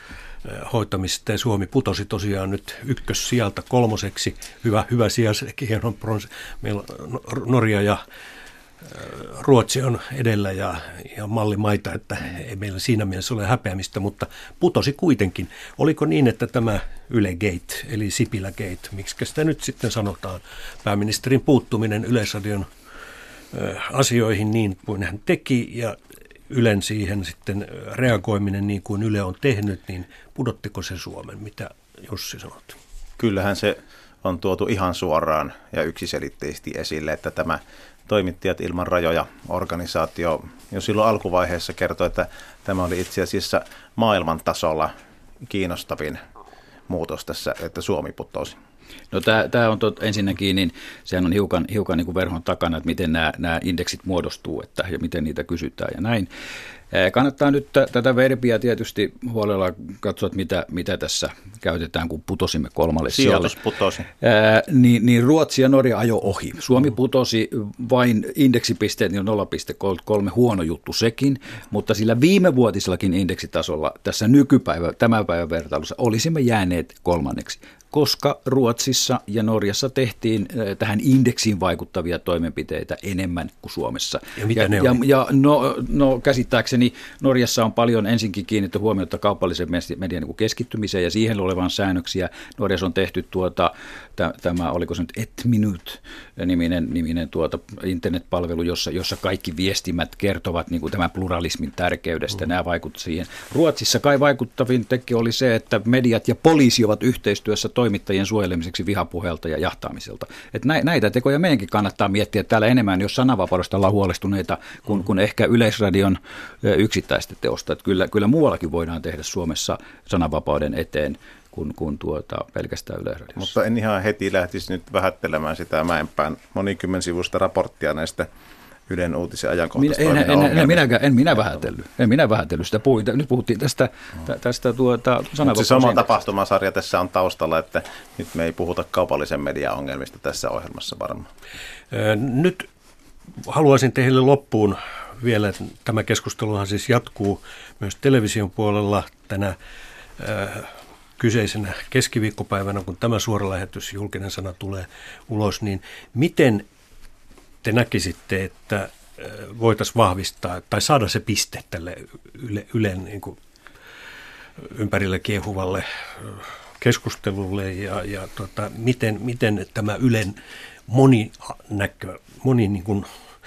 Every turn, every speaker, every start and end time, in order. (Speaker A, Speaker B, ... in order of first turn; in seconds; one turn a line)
Speaker A: 0.5-8.0
Speaker A: 8.9-22.7
Speaker A: 23.5-26.0
Speaker A: 26.5-32.8
Speaker B: 33.2-46.2
Speaker B: 46.9-48.6
Speaker C: 49.1-56.3
Speaker C: 56.9-63.5
Speaker B: 63.1-64.1
Speaker C: 64.1-123.5
Speaker A: 84.4-85.0
Speaker B: 123.4-128.3
Speaker B: 128.9-130.8
Speaker C: 129.8-136.2
Speaker B: 135.4-141.3
Speaker A: 141.9-142.7
Speaker A: 143.4-149.6
Speaker A: 150.2-156.7
Speaker A: 157.6-163.4
Speaker A: 164.6-173.1